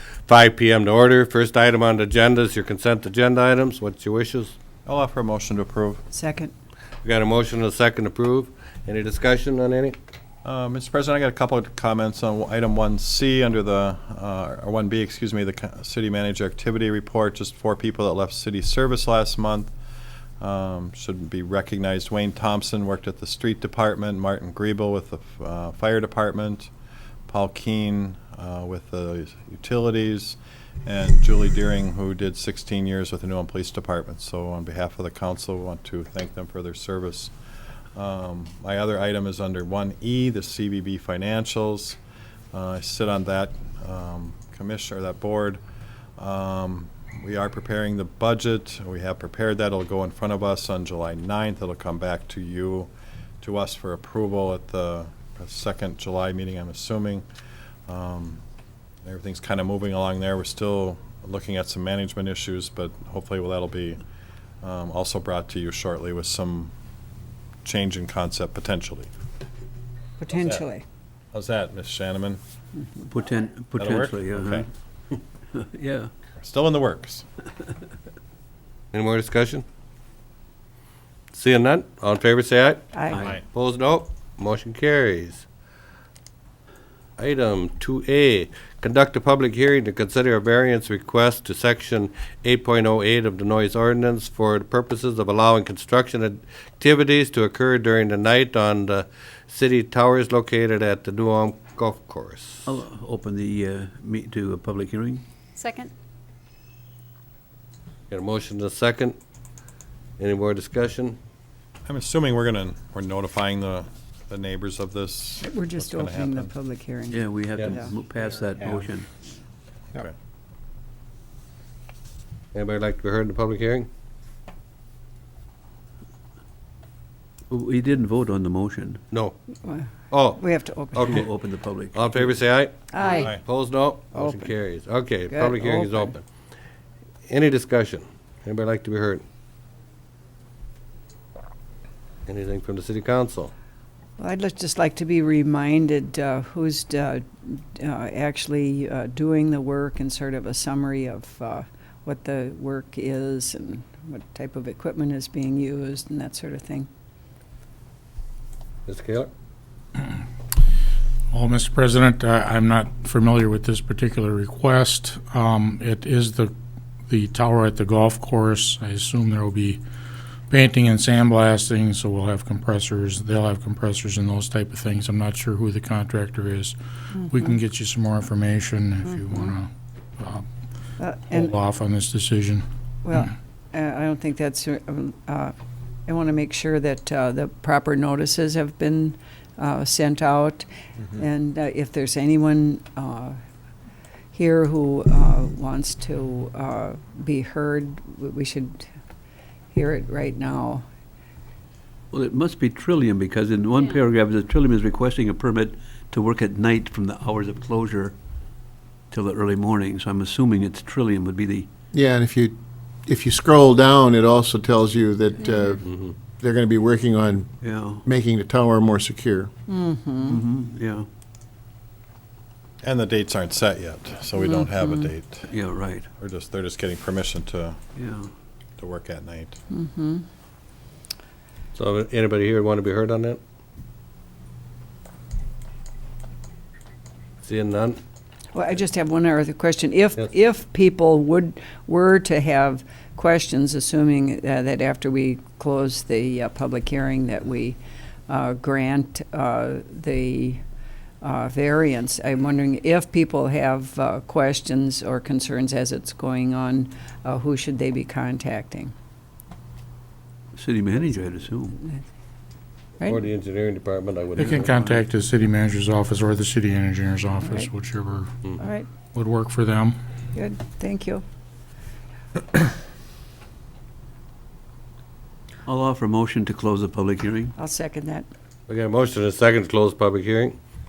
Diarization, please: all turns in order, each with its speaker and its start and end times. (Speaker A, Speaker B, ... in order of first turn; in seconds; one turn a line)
Speaker A: 0.3-4.5
Speaker B: 4.8-6.0
Speaker C: 6.1-6.5
Speaker A: 7.0-10.0
Speaker B: 10.4-19.7
Speaker B: 20.4-26.7
Speaker B: 27.3-37.3
Speaker B: 38.0-42.0
Speaker B: 42.5-45.6
Speaker B: 46.2-52.9
Speaker B: 53.4-57.2
Speaker B: 57.9-58.4
Speaker B: 59.0-64.0
Speaker B: 64.6-66.7
Speaker B: 67.6-69.1
Speaker C: 70.2-70.8
Speaker B: 70.4-70.6
Speaker B: 71.3-72.4
Speaker D: 73.1-74.6
Speaker B: 73.8-74.7
Speaker D: 75.5-76.1
Speaker B: 76.4-77.2
Speaker A: 78.9-79.6
Speaker A: 81.3-85.4
Speaker C: 82.9-83.3
Speaker A: 87.2-102.8
Speaker D: 102.7-105.2
Speaker A: 108.1-109.2
Speaker A: 110.2-111.2
Speaker B: 111.8-116.5
Speaker C: 115.4-117.9
Speaker D: 117.1-119.0
Speaker A: 122.5-123.9
Speaker D: 127.5-129.0
Speaker C: 129.6-131.2
Speaker A: 130.1-130.4
Speaker A: 130.9-131.3
Speaker D: 131.1-132.4
Speaker A: 131.9-136.2
Speaker C: 132.9-133.3
Speaker B: 133.0-133.4
Speaker C: 134.1-134.5
Speaker C: 135.3-136.2
Speaker A: 137.3-139.2
Speaker A: 142.3-143.5
Speaker C: 144.2-156.9
Speaker A: 158.9-159.3
Speaker E: 161.3-166.5
Speaker E: 167.1-169.8
Speaker E: 170.5-180.4
Speaker C: 177.1-177.6
Speaker C: 179.1-179.5
Speaker C: 181.0-181.6
Speaker E: 181.3-182.6
Speaker C: 183.0-185.5
Speaker C: 186.1-193.4
Speaker C: 194.3-198.9
Speaker C: 199.7-200.8
Speaker D: 202.1-208.1
Speaker D: 209.1-211.7
Speaker F: 211.9-215.8
Speaker A: 215.8-216.1
Speaker F: 216.4-217.5
Speaker D: 217.6-218.0
Speaker F: 218.0-219.5
Speaker C: 219.7-220.4
Speaker D: 220.3-221.1
Speaker B: 222.8-225.5
Speaker D: 225.5-226.1
Speaker B: 226.2-227.8
Speaker D: 228.0-228.3
Speaker B: 228.8-229.6
Speaker C: 229.7-230.2
Speaker A: 231.7-233.4
Speaker A: 237.4-238.0
Speaker C: 238.5-250.6
Speaker C: 251.2-258.9
Speaker D: 260.6-261.7
Speaker A: 263.0-265.0
Speaker E: 264.4-268.3
Speaker C: 267.4-267.7
Speaker C: 268.6-268.9
Speaker E: 269.1-269.9
Speaker C: 270.3-271.2
Speaker D: 275.7-277.5
Speaker C: 277.6-278.2
Speaker A: 278.7-280.6